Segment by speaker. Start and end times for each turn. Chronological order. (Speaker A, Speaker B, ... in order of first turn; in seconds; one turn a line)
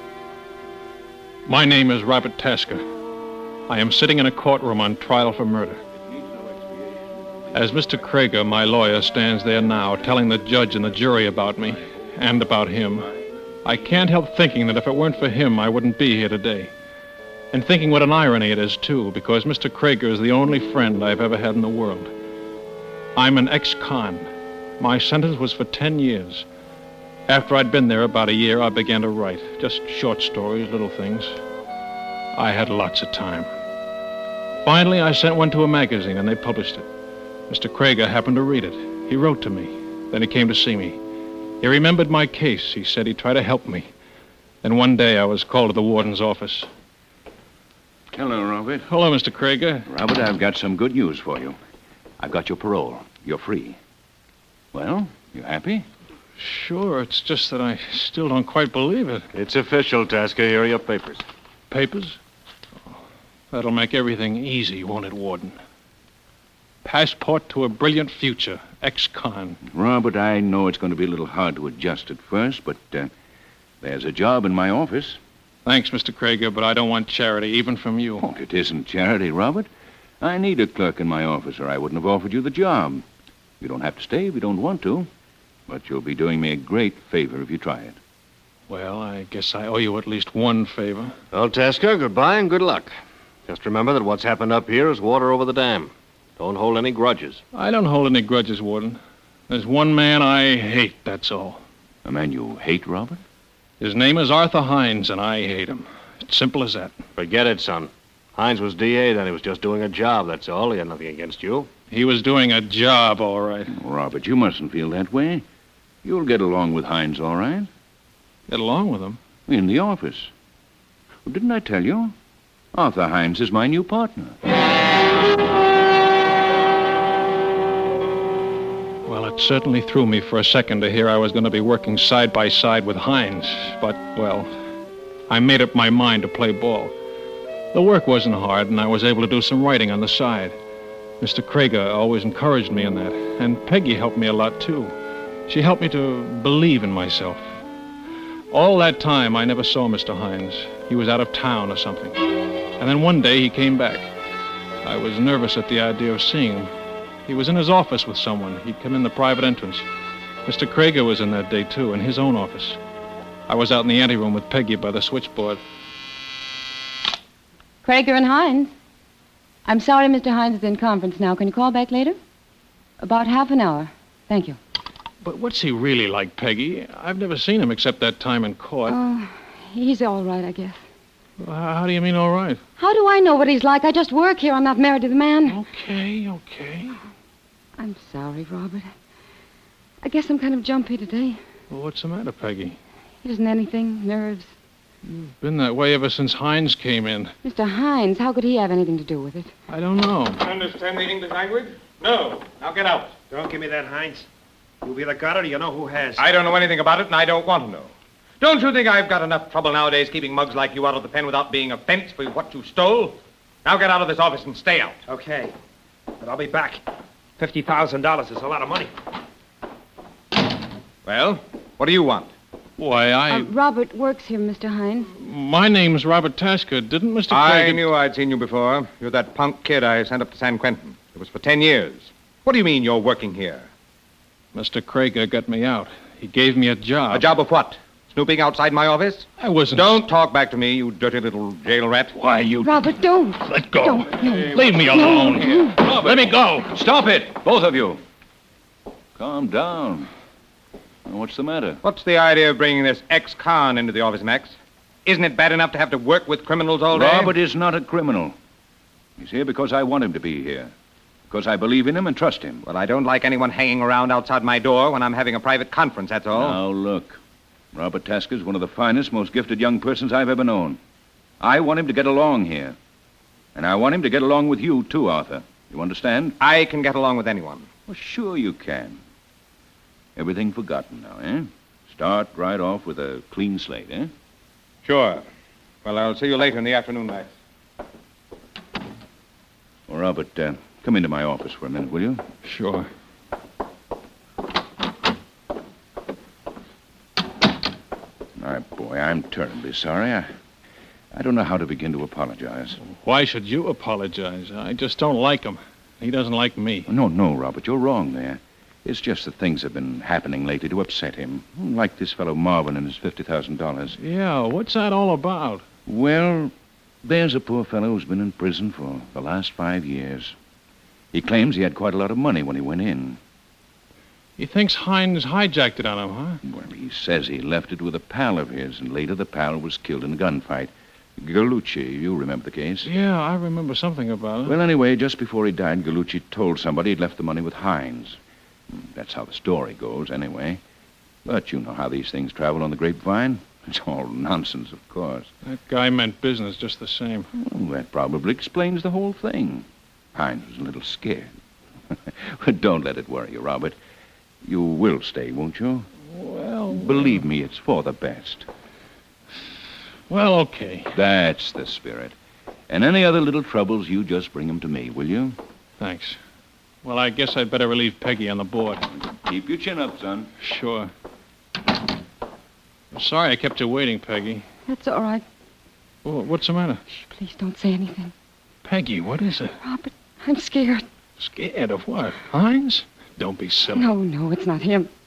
Speaker A: 1.5-2.9
Speaker A: 3.7-5.8
Speaker B: 6.0-7.4
Speaker A: 7.5-13.1
Speaker A: 13.7-16.7
Speaker A: 17.5-22.1
Speaker A: 23.2-26.5
Speaker A: 27.3-31.4
Speaker A: 32.3-33.5
Speaker A: 34.6-36.9
Speaker A: 37.5-41.0
Speaker A: 41.6-43.9
Speaker A: 44.6-46.7
Speaker B: 48.1-48.9
Speaker A: 48.9-49.9
Speaker B: 49.9-51.6
Speaker B: 52.2-53.8
Speaker B: 54.7-55.9
Speaker A: 56.4-59.3
Speaker C: 59.3-61.2
Speaker A: 61.7-62.2
Speaker A: 63.5-65.6
Speaker A: 66.8-69.6
Speaker B: 69.7-73.1
Speaker B: 73.8-75.2
Speaker A: 75.7-78.3
Speaker B: 78.2-79.7
Speaker B: 80.2-83.0
Speaker B: 83.6-85.1
Speaker B: 85.7-88.0
Speaker A: 88.7-91.2
Speaker C: 91.3-92.9
Speaker C: 93.5-97.4
Speaker A: 97.5-101.6
Speaker B: 102.0-103.2
Speaker A: 103.8-107.0
Speaker C: 107.2-111.7
Speaker A: 111.9-113.7
Speaker B: 113.7-115.4
Speaker B: 116.0-117.7
Speaker A: 118.5-119.2
Speaker B: 119.5-120.3
Speaker B: 121.2-122.1
Speaker B: 122.7-124.4
Speaker A: 129.1-134.5
Speaker A: 135.3-136.9
Speaker A: 137.7-140.6
Speaker A: 141.2-144.9
Speaker A: 145.5-147.5
Speaker A: 148.5-152.2
Speaker A: 152.8-154.1
Speaker A: 154.8-156.7
Speaker A: 157.3-159.8
Speaker A: 160.4-162.8
Speaker A: 163.5-165.6
Speaker D: 167.8-168.7
Speaker D: 169.7-172.2
Speaker D: 173.0-174.6
Speaker A: 175.2-179.0
Speaker D: 178.9-180.8
Speaker A: 181.4-182.6
Speaker D: 182.8-185.6
Speaker A: 185.5-187.0
Speaker D: 187.8-188.9
Speaker D: 190.0-191.4
Speaker A: 191.7-192.8
Speaker D: 193.2-194.5
Speaker A: 195.2-197.3
Speaker D: 197.4-199.5
Speaker A: 199.7-200.5
Speaker E: 200.4-203.2
Speaker F: 203.3-204.3
Speaker F: 204.8-206.2
Speaker E: 206.2-215.0
Speaker F: 215.1-215.5
Speaker F: 216.2-216.8
Speaker F: 217.4-218.9
Speaker E: 221.1-222.3
Speaker A: 222.8-223.5
Speaker D: 223.3-225.1
Speaker A: 225.1-227.8
Speaker E: 227.3-233.7
Speaker A: 234.6-237.3
Speaker E: 237.1-242.1
Speaker A: 239.4-240.1
Speaker A: 242.2-242.8
Speaker D: 242.6-245.8
Speaker A: 243.4-246.7
Speaker B: 245.7-248.0
Speaker B: 249.2-250.1
Speaker B: 251.1-251.8
Speaker E: 251.8-257.3
Speaker B: 256.9-258.4
Speaker B: 259.2-260.7
Speaker B: 261.3-262.6
Speaker E: 262.6-266.6
Speaker B: 266.3-267.2
Speaker B: 267.7-270.8
Speaker B: 271.4-272.8
Speaker B: 273.6-276.4
Speaker E: 276.4-277.7
Speaker B: 277.9-279.0
Speaker B: 280.2-284.1
Speaker E: 284.9-285.2
Speaker E: 285.9-287.3
Speaker B: 289.9-292.2
Speaker A: 292.4-292.9
Speaker B: 298.4-300.3
Speaker B: 301.1-302.8
Speaker A: 302.8-306.9
Speaker B: 306.9-314.0
Speaker A: 314.0-315.6
Speaker B: 315.9-316.5
Speaker B: 317.0-320.3
Speaker B: 321.1-323.2
Speaker A: 324.4-326.4
Speaker B: 326.4-332.9
Speaker A: 332.8-334.6
Speaker B: 334.5-338.2
Speaker B: 338.7-340.6
Speaker B: 341.2-345.3
Speaker A: 345.4-347.3
Speaker B: 347.4-351.3
Speaker B: 351.9-353.8
Speaker B: 354.4-355.9
Speaker A: 356.1-357.2
Speaker B: 356.7-358.5
Speaker A: 360.1-361.0
Speaker B: 360.9-362.1
Speaker B: 362.7-365.4
Speaker A: 365.8-366.2
Speaker A: 366.8-368.9
Speaker B: 369.1-370.3
Speaker A: 370.4-370.9
Speaker A: 372.9-374.5
Speaker D: 374.7-375.2
Speaker A: 376.1-376.8
Speaker D: 377.0-378.1
Speaker A: 378.6-379.6
Speaker D: 379.6-380.9
Speaker A: 381.2-383.9
Speaker D: 383.7-384.9